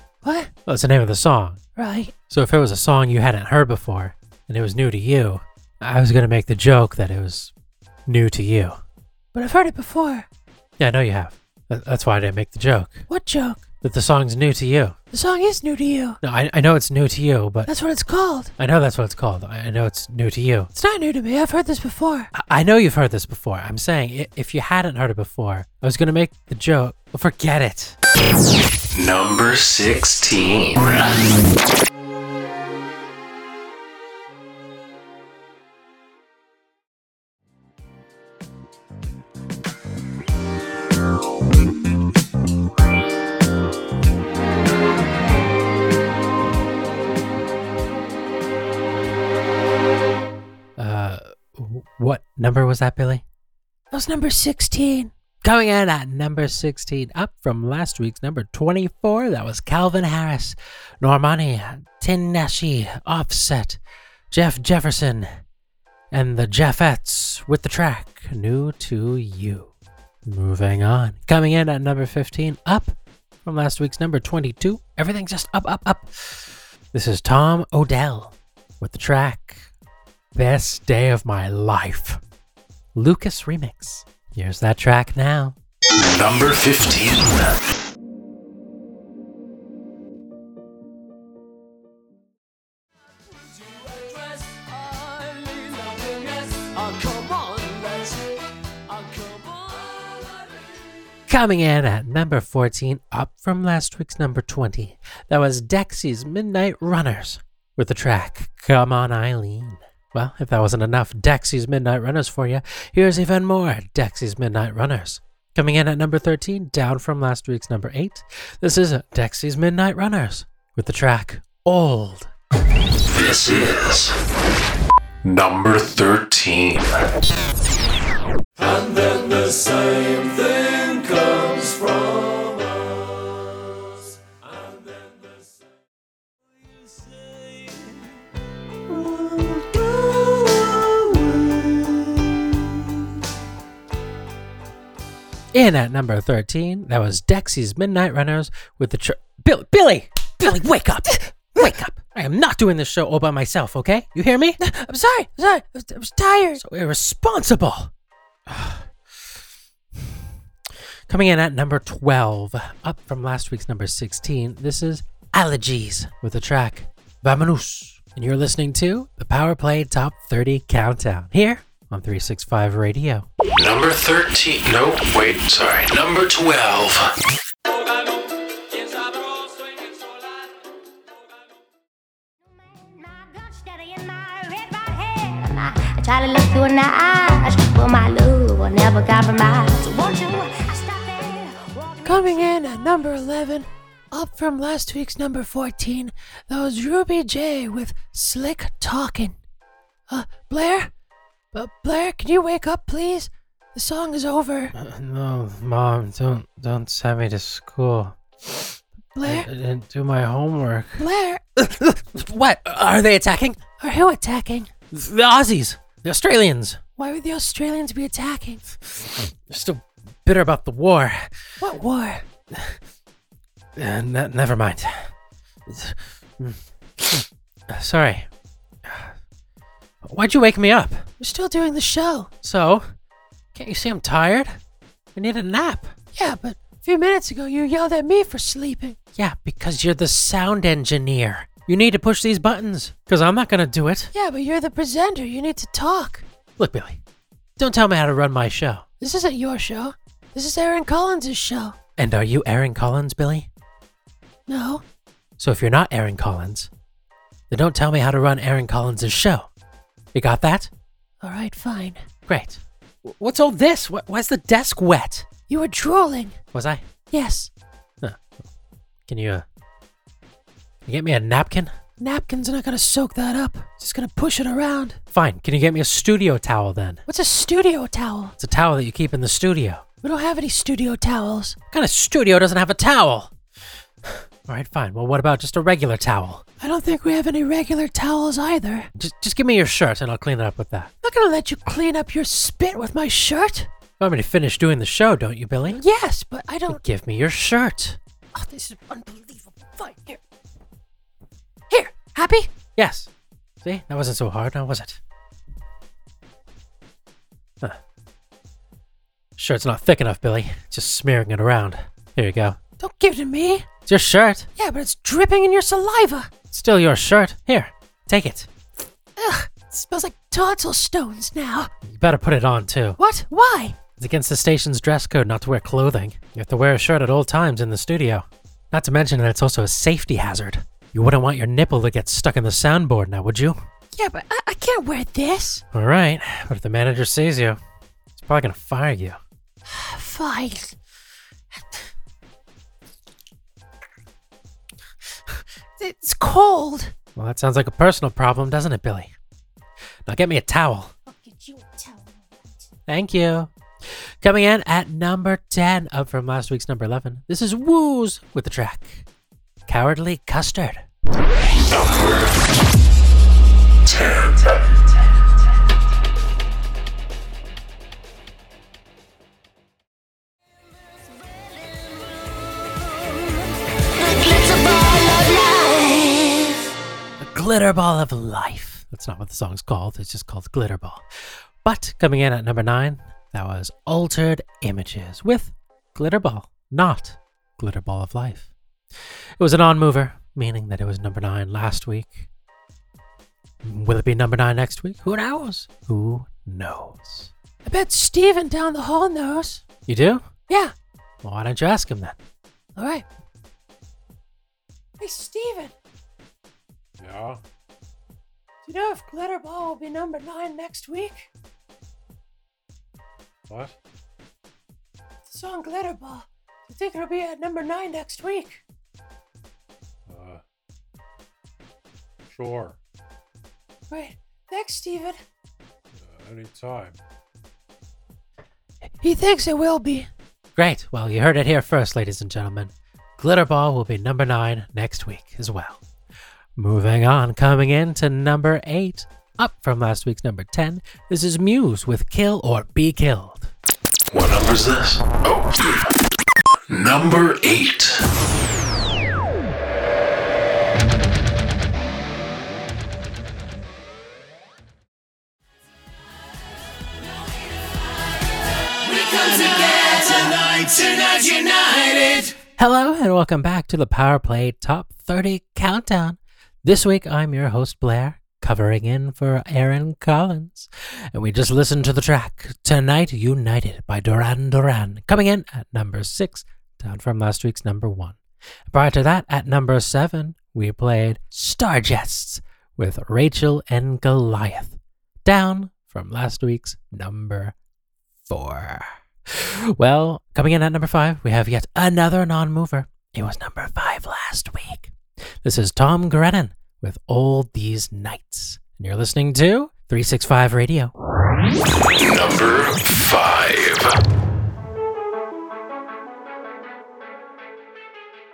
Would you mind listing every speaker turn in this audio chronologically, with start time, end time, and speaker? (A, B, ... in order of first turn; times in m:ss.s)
0:00.2-0:00.5 A
0:00.7-0:01.6 B
0:01.8-0:02.1 A
0:02.3-0:07.5 B
0:08.1-0:08.8 B
0:09.3-0:10.3 A
0:10.8-0:13.1 B
0:13.1-0:13.6 A
0:13.8-0:15.0 B
0:15.1-0:16.2 A
0:16.2-0:17.7 B
0:17.7-0:18.5 A
0:18.6-0:20.7 B
0:20.8-0:22.3 A
0:22.3-0:28.0 B
0:29.0-0:31.1 C
0:50.8-0:53.2 B
0:53.9-0:55.1 A
0:55.4-1:03.8 B
1:04.3-1:05.3 B
1:06.1-1:09.7 B
1:10.2-1:19.7 B
1:20.3-1:22.2 B
1:23.0-1:25.6 B
1:26.0-1:27.6 C
1:33.3-1:40.8 D
1:41.3-2:02.3 B
2:03.1-2:04.2 C
2:05.2-2:07.0 C
2:08.6-2:12.9 D
2:14.7-2:15.4 D
2:16.9-2:17.8 D
2:25.5-2:34.6 B
2:34.6-2:36.6 A
2:36.6-2:37.9 B
2:38.5-2:38.9 B
2:41.1-2:53.3 B
2:53.6-2:57.1 C
2:57.7-3:01.6 D
3:02.5-3:12.4 E
3:12.0-3:19.4 A
3:20.1-3:20.9 A
3:21.5-3:24.8 A
3:24.8-3:28.6 B
3:29.2-3:29.5 A
3:29.2-3:33.6 B
3:31.0-3:31.4 A
3:33.8-3:34.7 A
3:34.9-3:36.8 B
3:37.0-3:38.6 A
3:39.0-3:41.3 B
3:41.6-3:42.3 A
3:43.8-3:45.1 B
3:45.7-3:48.3 B
3:48.8-3:49.1 B
3:50.0-3:51.1 B
3:51.2-3:52.3 A
3:52.4-3:52.9 B
3:53.5-3:54.6 B
3:55.2-3:55.9 B
3:56.1-3:59.0 A
3:59.2-4:04.1 B
4:04.1-4:06.3 A
4:06.6-4:07.0 B
4:07.6-4:08.9 B
4:09.0-4:11.8 A
4:12.0-4:13.5 B
4:14.5-4:14.8 A
4:15.4-4:16.7 B
4:17.5-4:19.5 B
4:20.1-4:20.7 B
4:21.2-4:22.0 A
4:22.3-4:25.3 B
4:25.5-4:26.4 A
4:26.5-4:26.9 B
4:27.1-4:27.5 A
4:28.0-4:28.4 B
4:29.1-4:29.5 B
4:30.9-4:31.7 B
4:32.0-4:35.0 A
4:35.1-4:37.0 B
4:37.1-4:38.4 A
4:38.4-4:39.8 B
4:40.0-4:41.6 A
4:41.7-4:43.3 B
4:44.0-4:46.4 B
4:46.6-4:48.9 A
4:49.0-4:50.9 B
4:51.0-4:53.7 A
4:54.0-4:55.8 B
4:55.7-4:56.8 A
4:56.7-4:58.0 B
4:58.3-5:00.2 A
5:01.7-5:02.5 A
5:02.8-5:03.1 B
5:03.6-5:05.0 B
5:09.4-5:12.6 B
5:12.8-5:13.7 A
5:13.9-5:14.5 B
5:14.6-5:16.3 A
5:16.5-5:18.5 B
5:19.2-5:21.7 A
5:21.8-5:23.0 B
5:23.0-5:23.8 A
5:24.0-5:33.6 B
5:34.0-5:35.6 A
5:35.7-5:37.6 B
5:38.2-5:39.2 B
5:39.7-5:40.8 A
5:45.8-5:46.9 A
5:47.2-5:49.1 B
5:50.1-5:50.9 B
5:51.1-5:52.6 A
5:52.9-5:53.5 B
5:54.2-5:59.1 B
5:59.7-6:00.8 B
6:01.6-6:02.4 C
6:03.9-6:04.4 C
6:13.9-6:16.6 E
6:17.2-6:21.1 B
6:21.6-6:28.5 B
6:29.4-6:32.3 B
6:33.6-6:37.3 B
6:37.6-6:39.6 A
6:39.9-6:40.3 B
6:41.2-6:42.2 B
6:42.8-6:43.1 A
6:45.0-6:45.7 A
6:48.6-6:51.3 A
6:55.3-6:58.6 A
7:00.1-7:00.4 C
7:02.3-7:02.7 C
7:03.9-7:05.2 A
7:06.0-7:06.7 C
7:09.0-7:10.1 A
7:10.6-7:15.8 B
7:16.6-7:23.5 B
7:24.1-7:25.8 C
7:26.7-7:28.1 C
7:39.7-7:40.4 E
7:42.4-7:58.2 B
7:58.7-8:07.6 B
8:08.3-8:20.9 B
8:22.0-8:23.9 C